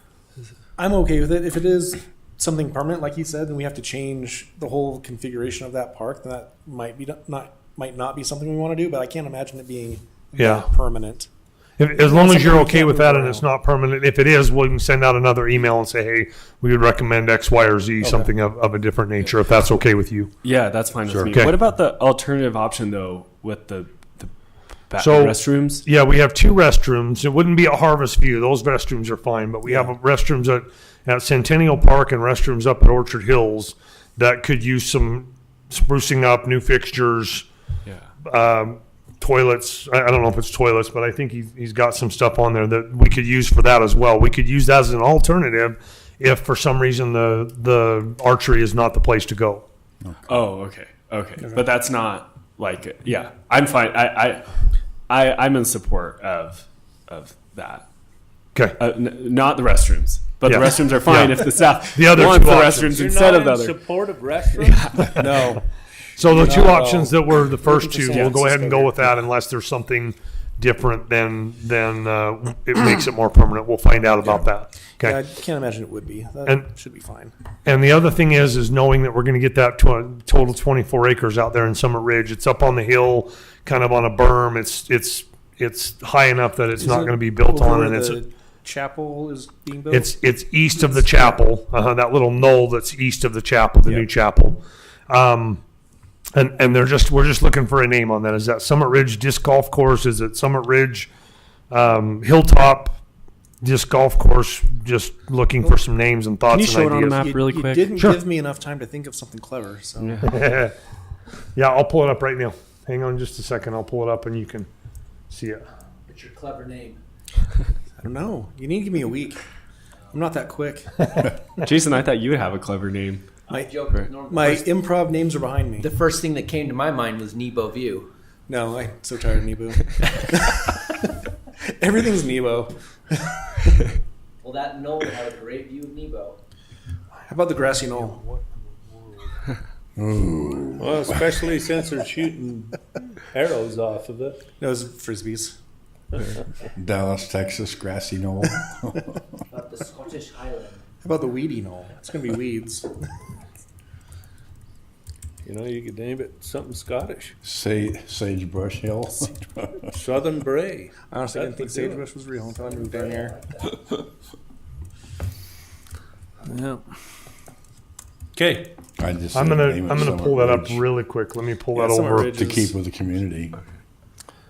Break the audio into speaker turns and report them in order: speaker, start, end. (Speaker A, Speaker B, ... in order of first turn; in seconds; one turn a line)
Speaker A: 0.8-11.3
Speaker B: 10.3-10.7
Speaker B: 11.8-20.3
Speaker A: 12.0-13.4
Speaker A: 18.0-18.3
Speaker C: 20.4-24.3
Speaker D: 21.1-21.4
Speaker B: 21.3-21.6
Speaker C: 24.9-25.9
Speaker B: 25.0-37.5
Speaker C: 37.8-38.1
Speaker B: 38.2-49.6
Speaker D: 50.0-50.4
Speaker C: 50.3-54.4
Speaker C: 55.1-57.9
Speaker C: 58.8-63.8
Speaker B: 60.4-63.1
Speaker E: 62.7-65.1
Speaker C: 64.6-65.1
Speaker B: 65.0-65.5
Speaker A: 65.1-65.6
Speaker B: 66.2-75.2
Speaker A: 66.2-69.1
Speaker C: 68.1-68.4
Speaker A: 74.2-77.3
Speaker B: 77.6-88.2
Speaker A: 86.8-90.2
Speaker B: 89.9-95.6
Speaker A: 90.7-91.4
Speaker B: 96.3-101.1
Speaker B: 101.7-103.0
Speaker B: 103.6-107.3
Speaker C: 106.5-108.0
Speaker A: 107.2-110.3
Speaker B: 108.0-108.2
Speaker C: 110.0-110.4
Speaker B: 110.2-110.7
Speaker B: 111.5-114.7
Speaker B: 115.3-115.6
Speaker F: 115.9-117.0
Speaker A: 118.0-119.4
Speaker A: 120.1-121.1
Speaker C: 121.6-123.2
Speaker A: 123.5-123.7
Speaker F: 123.6-124.7
Speaker A: 124.3-125.9
Speaker F: 125.8-128.1
Speaker A: 128.5-131.0
Speaker A: 131.8-133.6
Speaker F: 134.4-136.4
Speaker A: 137.2-138.2
Speaker E: 137.8-139.5
Speaker D: 139.9-141.2
Speaker E: 140.8-144.4
Speaker A: 144.6-145.6
Speaker D: 146.7-149.2
Speaker F: 149.5-150.8
Speaker A: 151.0-152.9
Speaker E: 155.4-157.3
Speaker D: 157.4-159.8
Speaker E: 159.9-162.1
Speaker A: 161.1-163.3
Speaker F: 162.3-163.9
Speaker E: 166.4-166.8
Speaker E: 168.3-168.7
Speaker D: 169.0-170.8
Speaker B: 169.3-172.7
Speaker E: 171.9-172.4
Speaker D: 172.1-173.6